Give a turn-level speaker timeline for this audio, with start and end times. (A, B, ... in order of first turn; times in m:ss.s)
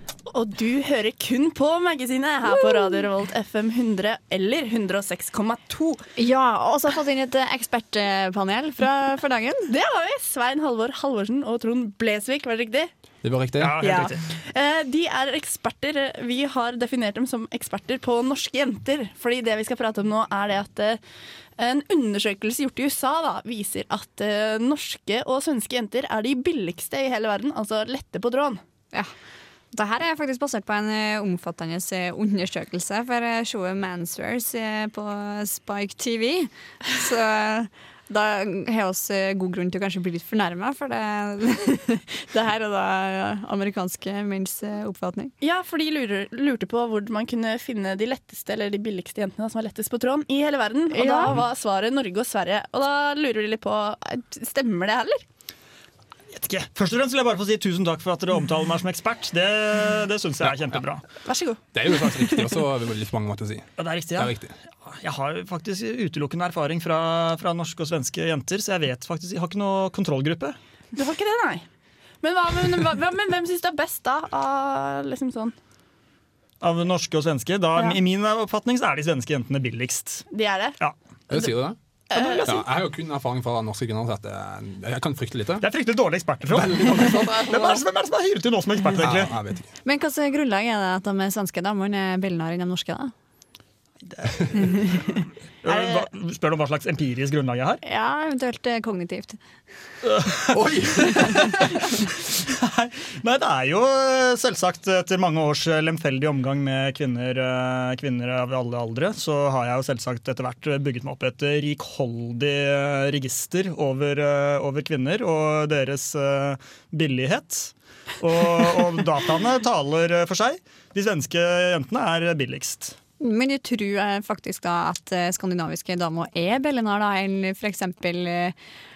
0:00.3-0:06.0 A
0:02.5-0:03.0 B
0:06.2-0:09.7 B
0:09.7-0:12.9 A
0:13.2-0:14.1 C
0:13.6-0:14.2 D
0:13.8-0:14.1 B
0:14.3-0:21.0 A
0:21.6-0:28.6 A
0:29.7-0:45.3 B
0:45.4-0:55.2 A
0:50.9-0:51.3 D
0:51.0-0:51.3 B
0:56.3-1:01.0 D
1:00.4-1:00.8 C
1:01.2-1:02.0 A
1:01.7-1:04.5 C
1:03.8-1:10.6 D
1:10.9-1:11.6 A
1:12.2-1:15.5 A
1:16.6-1:20.2 D
1:20.3-1:20.8 A
1:21.3-1:25.7 C
1:22.1-1:22.6 A
1:25.6-1:29.3 D
1:26.5-1:27.8 C
1:28.9-1:29.7 C
1:29.8-1:33.1 B
1:34.1-1:34.9 D
1:34.6-1:35.0 B
1:35.6-1:37.8 D
1:37.8-1:39.4 B
1:40.0-1:40.6 D
1:40.5-1:41.7 C
1:41.3-2:03.0 D
2:03.2-2:08.6 B